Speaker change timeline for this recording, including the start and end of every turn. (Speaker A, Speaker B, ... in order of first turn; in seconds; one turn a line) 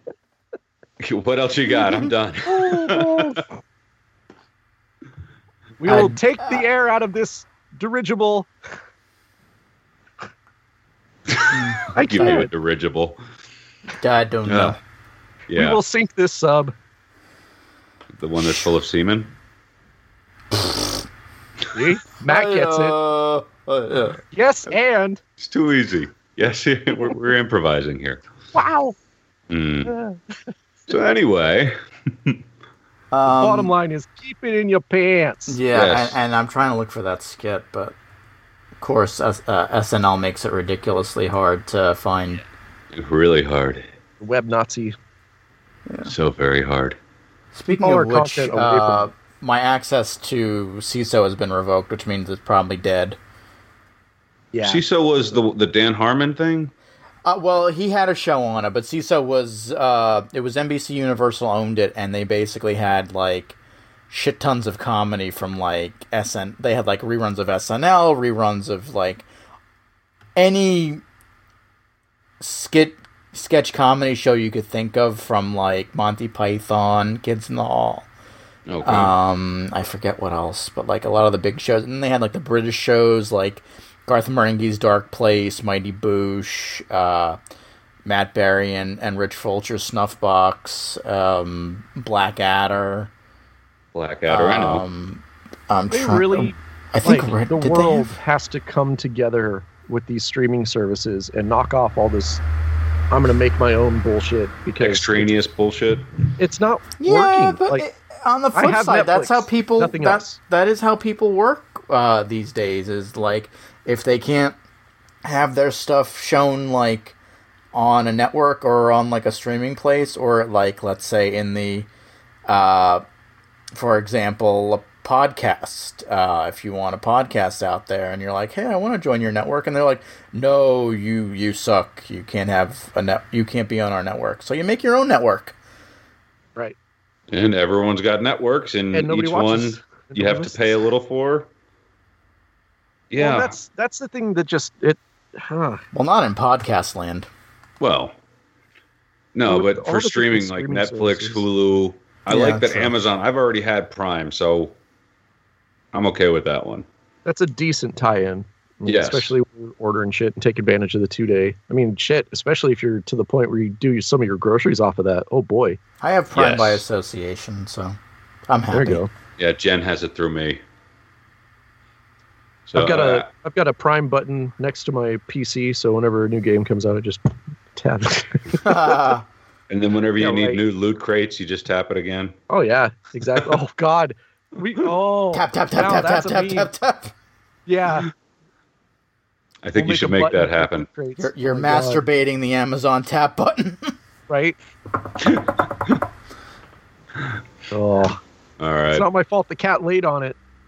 Speaker A: 1.0-3.4
Speaker B: 2.5-3.5
Speaker B: 5.8-8.5
Speaker C: 5.8-6.6
Speaker A: 11.3-13.2
Speaker C: 11.5-12.4
Speaker B: 11.9-12.5
Speaker C: 14.0-14.8
Speaker A: 14.5-14.8
Speaker A: 15.5-15.8
Speaker B: 15.5-16.7
Speaker A: 18.2-19.3
Speaker C: 20.6-20.9
Speaker B: 21.7-23.0
Speaker C: 22.2-24.2
Speaker B: 24.3-25.2
Speaker A: 25.4-28.2
Speaker B: 28.5-28.9
Speaker A: 29.5-29.9
Speaker B: 29.9-30.5
Speaker A: 30.9-32.4
Speaker C: 33.1-33.7
Speaker B: 33.3-35.6
Speaker C: 35.5-38.0
Speaker A: 35.7-36.2
Speaker C: 38.8-42.4
Speaker A: 42.9-43.9
Speaker B: 44.2-45.0
Speaker C: 45.9-46.1
Speaker A: 46.0-47.0
Speaker C: 47.5-53.2
Speaker B: 47.7-49.0
Speaker B: 54.5-54.8
Speaker A: 54.6-56.7
Speaker C: 57.3-63.6
Speaker C: 64.1-69.3
Speaker C: 70.4-71.0
Speaker C: 72.4-78.1
Speaker A: 78.7-79.1
Speaker C: 78.8-87.4
Speaker C: 88.0-93.1
Speaker A: 93.9-94.8
Speaker C: 94.3-98.2
Speaker B: 95.9-102.4
Speaker B: 103.1-105.3
Speaker A: 104.8-106.1
Speaker B: 106.4-107.8
Speaker C: 107.0-114.6
Speaker B: 108.5-110.4
Speaker C: 115.2-117.2
Speaker C: 117.7-121.9
Speaker C: 122.5-123.0
Speaker C: 123.8-135.6
Speaker A: 137.3-141.5
Speaker B: 138.9-140.6
Speaker A: 143.1-143.5
Speaker B: 143.2-145.8
Speaker C: 145.9-147.3
Speaker A: 147.8-148.2
Speaker A: 149.3-154.7
Speaker B: 149.5-151.4
Speaker C: 152.3-152.9
Speaker A: 155.9-156.9
Speaker B: 157.3-165.8
Speaker A: 158.8-159.3
Speaker C: 166.0-168.0
Speaker A: 166.3-166.8
Speaker C: 168.5-169.0
Speaker B: 168.7-169.1
Speaker A: 169.4-170.6
Speaker A: 172.7-173.3
Speaker B: 172.8-178.7
Speaker C: 178.6-179.2
Speaker A: 179.7-182.3
Speaker B: 180.2-180.6
Speaker B: 182.5-186.7
Speaker C: 185.3-187.1
Speaker B: 187.7-188.1
Speaker A: 189.6-190.9
Speaker B: 189.8-192.0
Speaker C: 191.2-193.9
Speaker B: 194.3-194.6
Speaker A: 195.2-196.0
Speaker B: 197.7-198.2
Speaker A: 198.6-199.1
Speaker B: 198.9-200.4